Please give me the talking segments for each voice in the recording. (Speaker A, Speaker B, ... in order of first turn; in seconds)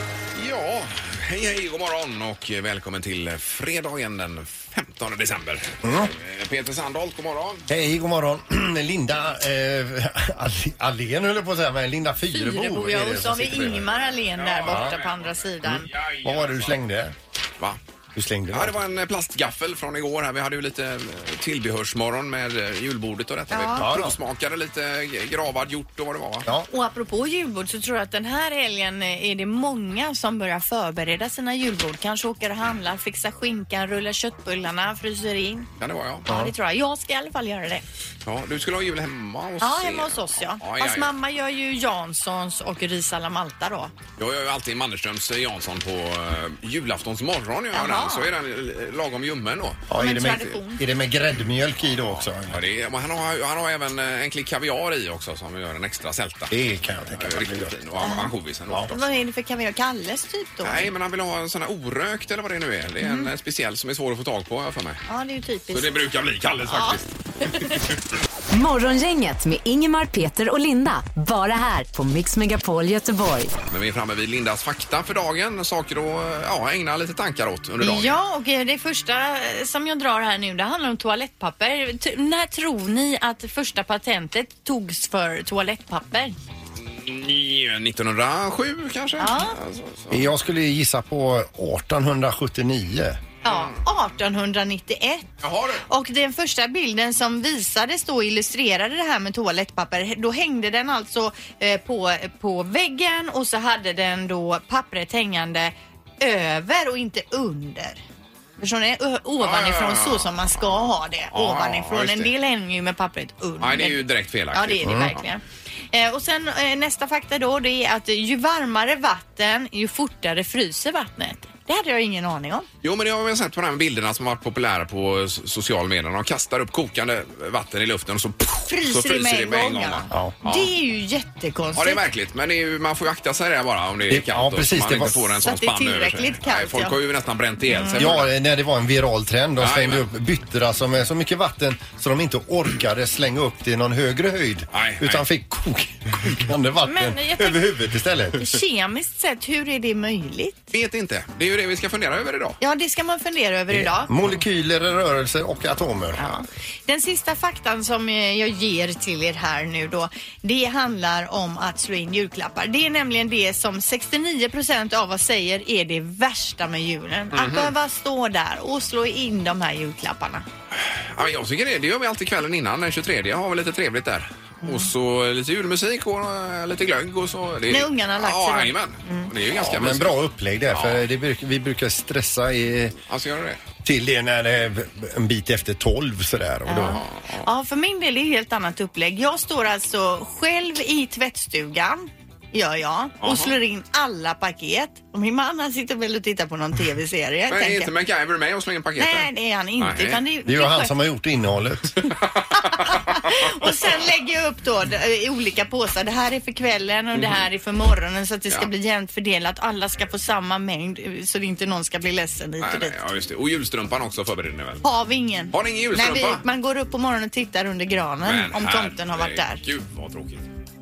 Speaker A: 0.3-7.7, 14.3-16.8, 18.5-26.4, 35.8-36.3, 38.2-41.1, 44.2-49.9, 51.9-56.6, 57.2-59.0, 60.6-65.0, 65.7-67.8, 73.7-78.2, 86.8-90.3, 95.4-95.8, 109.4-112.3, 113.6-115.2, 122.8-130.7, 131.7-138.3, 139.6-140.0, 144.7-145.2, 150.7-152.6, 167.3-167.7, 170.8-180.2, 180.7-181.0, 183.1-183.6, 186.8-187.5, 193.2-193.5, 197.5-200.2, 202.0-202.8, 212.6-214.8, 215.5-216.4, 218.2-220.4
Speaker B: 5.8-6.1, 7.7-13.9, 14.7-14.9, 16.2-17.1, 18.1-18.8, 23.8-24.2, 36.3-36.5, 49.9-52.6, 56.5-57.7, 90.1-93.2, 114.8-115.2, 134.1-135.3, 138.0-148.6, 153.7-156.4, 179.5-182.9, 183.8-187.0, 200.4-202.1
Speaker C: 12.3-15.9, 23.5-23.9, 26.5-35.7, 36.2-37.8, 39.6-43.9, 47.7-48.3, 49.9-50.8, 58.0-58.3, 58.9-60.9, 63.0-63.3, 65.1-66.0, 66.7-67.7, 77.8-86.3, 89.2-89.5, 93.4-95.3, 95.9-108.0, 108.6-114.0, 114.5-122.7, 128.7-132.0, 135.4-137.0, 137.7-138.1, 146.8-147.7, 148.3-150.6, 152.6-154.1, 156.2-170.4, 177.7-179.3, 186.7-197.9, 199.0-200.9, 202.5-212.9, 214.8-219.6
Speaker D: 68.5-73.5